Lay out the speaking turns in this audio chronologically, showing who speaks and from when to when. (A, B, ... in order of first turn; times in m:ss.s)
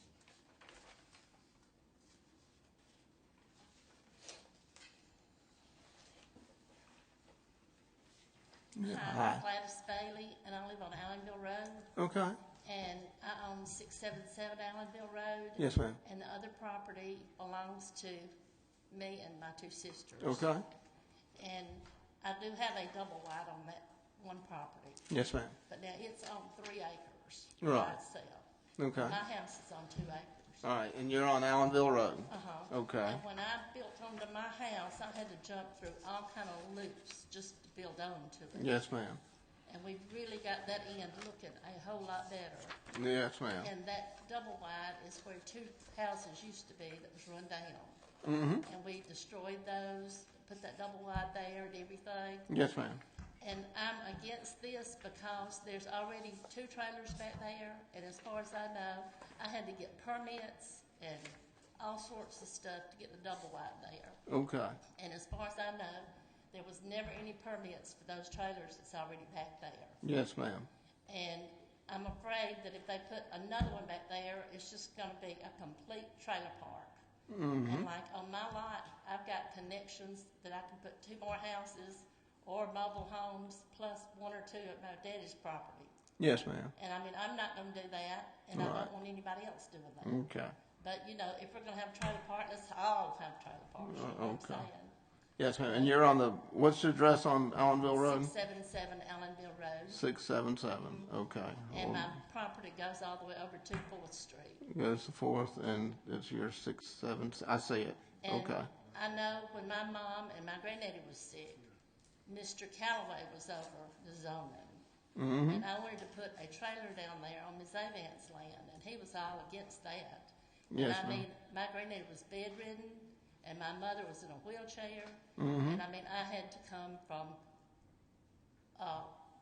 0:08.8-0:09.4 A
0:08.8-0:11.9 B
0:12.0-0:12.4 A
0:12.6-0:18.3 B
0:15.6-0:16.0 A
0:18.9-0:20.5 B
0:20.2-0:20.6 A
0:21.4-0:25.1 B
0:25.1-0:25.5 A
0:25.6-0:30.7 B
0:27.6-0:28.0 A
0:28.8-0:29.2 A
0:30.6-0:33.2 A
0:32.3-0:38.8 B
0:38.5-0:39.2 A
0:39.6-0:42.8 B
0:42.9-0:43.7 A
0:43.6-0:48.0 B
0:48.2-0:48.6 A
0:48.6-0:52.5 B
0:52.5-0:53.0 A
0:53.4-1:04.2 B
1:04.3-1:04.8 A
1:04.9-1:10.0 B
1:10.0-1:10.7 A
1:11.1-1:17.0 B
1:17.3-1:17.9 A
1:17.6-1:25.9 B
1:26.2-1:26.7 A
1:26.7-1:30.2 B
1:28.5-1:28.9 A
1:30.0-1:30.6 A
1:30.8-1:34.9 B
1:33.8-1:34.7 A
1:35.4-1:38.3 A
1:35.6-1:36.2 B
1:37.9-1:40.0 B
1:39.9-1:42.2 A
1:41.7-1:44.6 B
1:44.6-1:48.7 A
1:48.2-1:51.6 B
1:52.2-1:54.8 B
1:55.2-1:55.6 A
1:55.5-2:07.4 B
2:00.7-2:01.3 A
2:05.4-2:05.8 A
2:08.7-2:09.1 B